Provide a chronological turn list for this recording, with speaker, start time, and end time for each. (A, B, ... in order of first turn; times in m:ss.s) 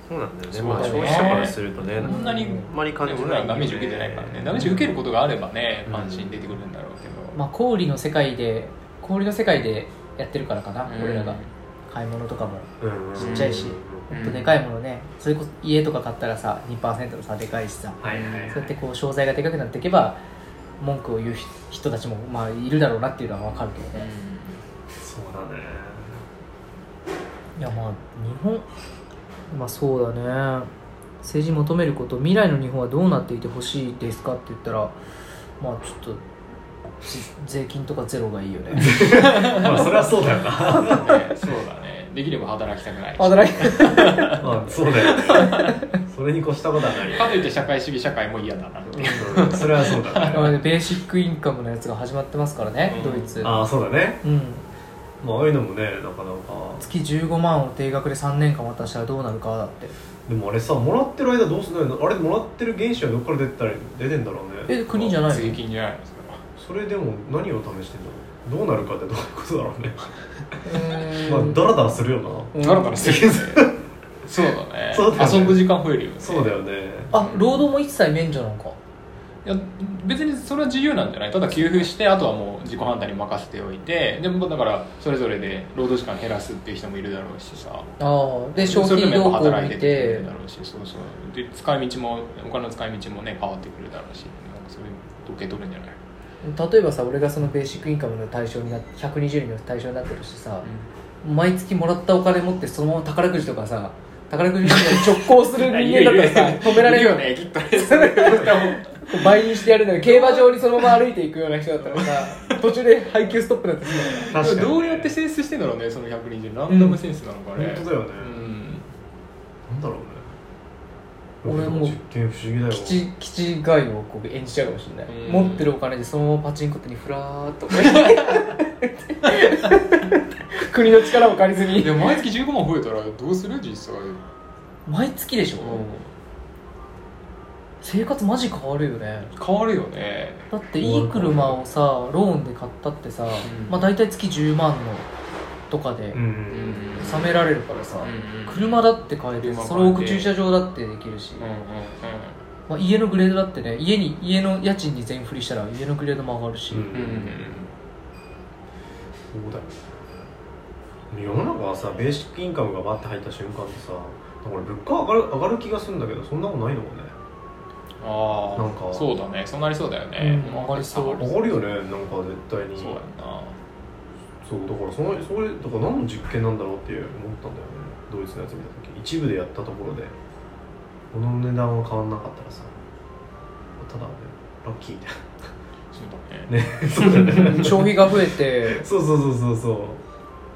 0:00.1-0:05.0 A
0:00.5-0:07.4 B
0:00.8-0:02.7 C
0:05.9-0:06.4 A
0:07.3-0:18.0 C
0:10.9-0:11.5 B
0:12.8-0:14.1 A
0:13.2-0:13.6 B
0:14.1-0:14.6 B
0:18.0-0:18.6 A
0:18.1-0:18.7 B
0:18.5-0:20.2 C
0:20.8-0:24.1 C
0:23.9-0:24.6 B
0:25.0-0:26.2 A
0:27.6-0:28.7 C
0:29.5-0:30.7 C
0:31.2-0:35.0 C
0:35.6-0:36.2 C
0:37.0-0:39.8 C
0:38.7-0:41.1 A
0:39.0-0:40.1 B
0:40.8-0:45.7 B
0:43.2-0:44.4 C
0:44.3-0:47.5 A
0:45.2-0:45.7 C
0:47.0-0:50.6 B
0:48.9-0:49.5 C
0:49.1-0:50.6 A
0:50.3-0:54.7 C
0:52.8-0:53.4 B
0:53.4-0:54.2 A
0:55.2-0:56.8 A
0:56.8-0:59.9 C
1:00.3-1:04.8 A
1:04.7-1:05.6 C
1:04.9-1:06.4 B
1:06.6-1:10.0 A
1:10.6-1:11.9 C
1:10.9-1:13.8 A
1:12.5-1:13.0 C
1:12.6-1:16.6 B
1:14.9-1:17.1 A
1:17.1-1:18.8 C
1:17.1-1:17.6 B
1:19.4-1:27.9 B
1:28.0-1:30.3 C
1:28.6-1:36.0 B
1:36.4-1:40.7 C
1:41.2-1:54.3 C
1:44.7-1:51.0 B
1:51.9-1:52.6 B
1:54.0-1:58.8 B
1:54.2-1:55.1 A
1:56.7-1:57.0 C
1:57.5-1:58.4 A
1:59.7-2:00.3 A
2:01.4-2:03.0 A
2:01.4-2:02.0 C
2:02.7-2:12.0 C
2:05.1-2:05.7 B
2:07.9-2:08.4 B
2:11.7-2:14.2 B
2:14.8-2:15.8 C
2:15.6-2:16.1 B
2:17.8-2:19.3 C
2:19.3-2:20.5 B
2:20.5-2:25.1 C
2:20.8-2:21.6 A
2:23.4-2:23.8 B
2:25.7-2:26.2 C
2:26.1-2:27.3 A
2:26.5-2:27.3 B
2:27.0-2:31.5 C
2:28.0-2:28.8 B
2:29.4-2:30.3 B
2:31.4-2:32.4 B
2:32.7-2:37.3 C
2:36.7-2:37.6 A
2:36.9-2:37.7 B
2:39.3-2:40.2 A
2:41.1-2:47.1 A
2:48.0-2:51.6 B
2:48.5-2:49.1 A
2:50.2-2:51.3 C
2:51.2-2:53.0 A
2:52.8-2:53.6 B
2:54.4-3:00.2 A
3:01.1-3:02.7 A
3:03.8-3:05.2 A
3:05.9-3:07.7 B
3:06.5-3:10.0 A
3:07.2-3:08.8 C